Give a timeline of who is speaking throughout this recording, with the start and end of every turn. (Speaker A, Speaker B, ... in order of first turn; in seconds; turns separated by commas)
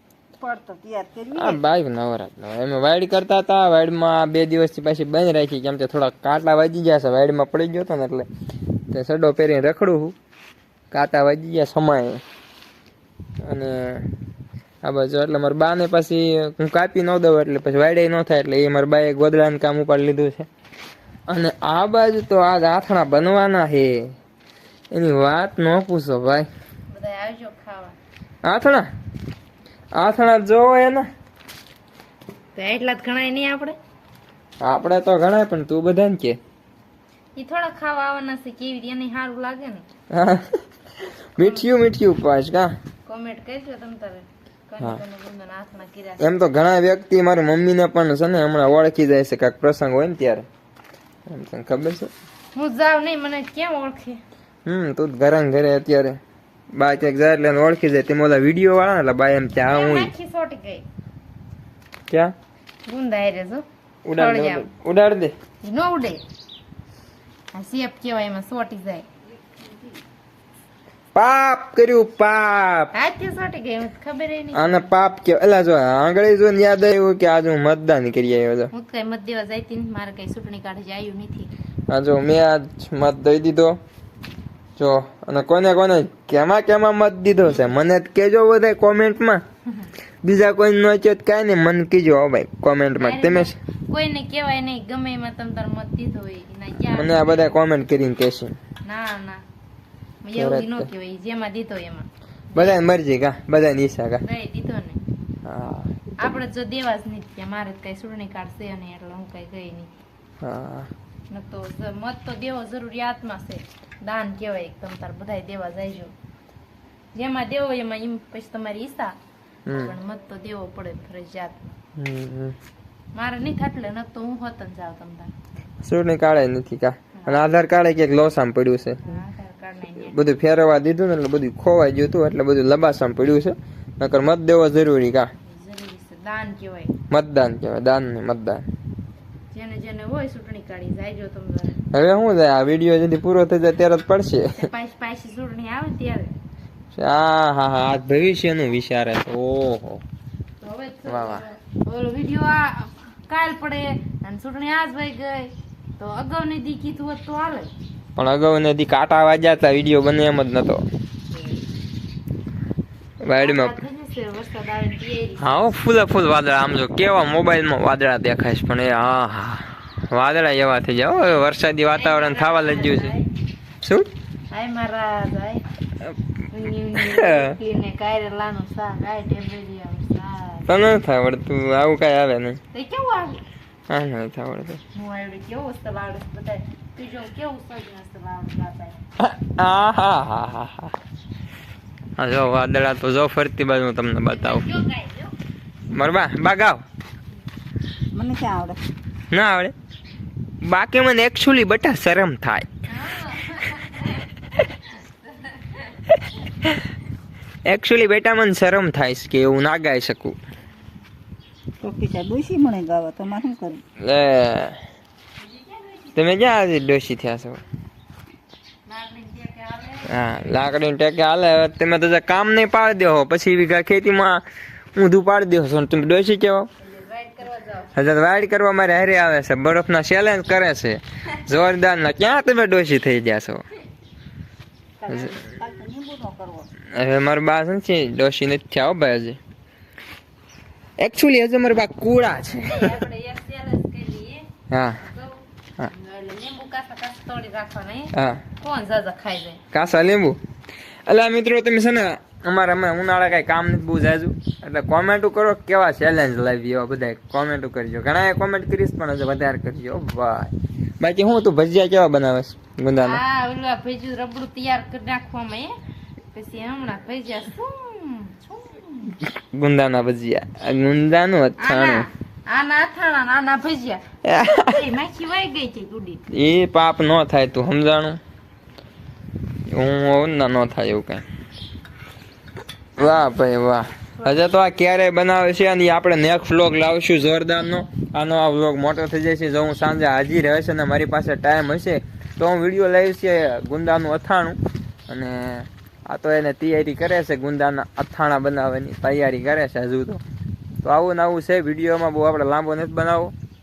Speaker A: 0.4-1.6, Speaker B: 1.3-8.3, Speaker B: 8.9-10.1, Speaker B: 10.9-12.2, Speaker B: 13.4-14.1, Speaker B: 14.8-20.5, Speaker B: 21.3-24.1, Speaker B: 24.9-26.5, Speaker C: 26.9-28.0, Speaker B: 28.4-28.9, Speaker B: 30.0-31.1, Speaker C: 32.5-33.8, Speaker B: 34.6-36.4, Speaker C: 37.4-39.9, Speaker B: 40.1-40.6, Speaker B: 41.3-42.7, Speaker C: 41.4-41.6, Speaker C: 43.0-46.4, Speaker B: 46.2-50.5, Speaker B: 51.3-52.1, Speaker C: 52.5-54.2, Speaker B: 54.6-56.2, Speaker B: 56.7-60.1, Speaker C: 59.6-60.8, Speaker C: 62.9-64.7, Speaker B: 64.0-65.3, Speaker C: 65.6-66.2, Speaker C: 67.5-69.0, Speaker B: 71.1-72.9, Speaker C: 72.9-74.9, Speaker B: 74.5-78.7, Speaker C: 78.7-81.5, Speaker B: 81.9-83.8, Speaker B: 84.8-89.4, Speaker B: 90.2-93.5, Speaker C: 93.0-97.6, Speaker B: 96.9-98.5, Speaker C: 98.8-99.4, Speaker C: 100.2-102.8, Speaker B: 100.3-100.9, Speaker B: 102.5-104.2, Speaker C: 104.2-105.0, Speaker B: 105.4-106.2, Speaker C: 106.2-109.9, Speaker B: 110.4-110.9, Speaker C: 111.3-116.1, Speaker C: 117.1-119.2, Speaker B: 119.7-119.9, Speaker C: 119.7-121.8, Speaker B: 122.0-122.5, Speaker C: 123.1-125.3, Speaker B: 125.8-129.0, Speaker C: 127.1-127.5, Speaker C: 129.0-130.2, Speaker B: 130.0-135.3, Speaker C: 135.4-136.9, Speaker B: 137.1-138.6, Speaker C: 139.5-141.8, Speaker B: 141.9-144.6, Speaker C: 144.6-146.3, Speaker B: 146.9-150.0, Speaker C: 150.6-157.7, Speaker B: 151.1-151.4, Speaker B: 158.2-160.8, Speaker C: 161.3-161.6, Speaker B: 163.2-163.8, Speaker C: 163.4-165.7, Speaker B: 165.4-173.1, Speaker C: 171.9-173.2, Speaker B: 173.8-174.1, Speaker C: 174.5-175.6, Speaker C: 176.5-180.9, Speaker B: 176.9-177.6, Speaker B: 180.7-182.6, Speaker C: 182.7-183.4, Speaker B: 183.9-184.8, Speaker C: 184.9-189.0, Speaker B: 189.2-190.9, Speaker B: 192.2-194.6, Speaker C: 194.3-195.3, Speaker B: 195.9-196.8, Speaker A: 198.1-198.8, Speaker B: 199.3-199.7, Speaker B: 200.6-202.7, Speaker C: 202.9-204.3, Speaker C: 204.8-206.0, Speaker B: 207.7-210.3, Speaker A: 211.8-213.8, Speaker B: 214.0-214.8, Speaker C: 215.4-216.2, Speaker B: 216.1-217.6, Speaker C: 218.9-220.6, Speaker B: 220.1-224.4, Speaker B: 224.9-226.7, Speaker C: 226.8-227.9, Speaker B: 227.9-233.6, Speaker A: 235.0-236.7, Speaker B: 235.1-235.3, Speaker B: 236.9-239.4, Speaker B: 241.0-242.9, Speaker C: 242.4-244.5, Speaker B: 244.7-245.0, Speaker C: 245.0-249.6, Speaker B: 248.1-248.4, Speaker B: 249.7-250.4, Speaker B: 251.1-263.2, Speaker C: 262.9-265.7, Speaker C: 266.3-269.2, Speaker B: 269.3-272.1, Speaker C: 271.6-276.2, Speaker B: 274.2-274.7, Speaker B: 276.3-278.2, Speaker B: 279.7-281.2, Speaker B: 283.0-300.2, Speaker C: 284.2-284.4, Speaker B: 300.8-303.3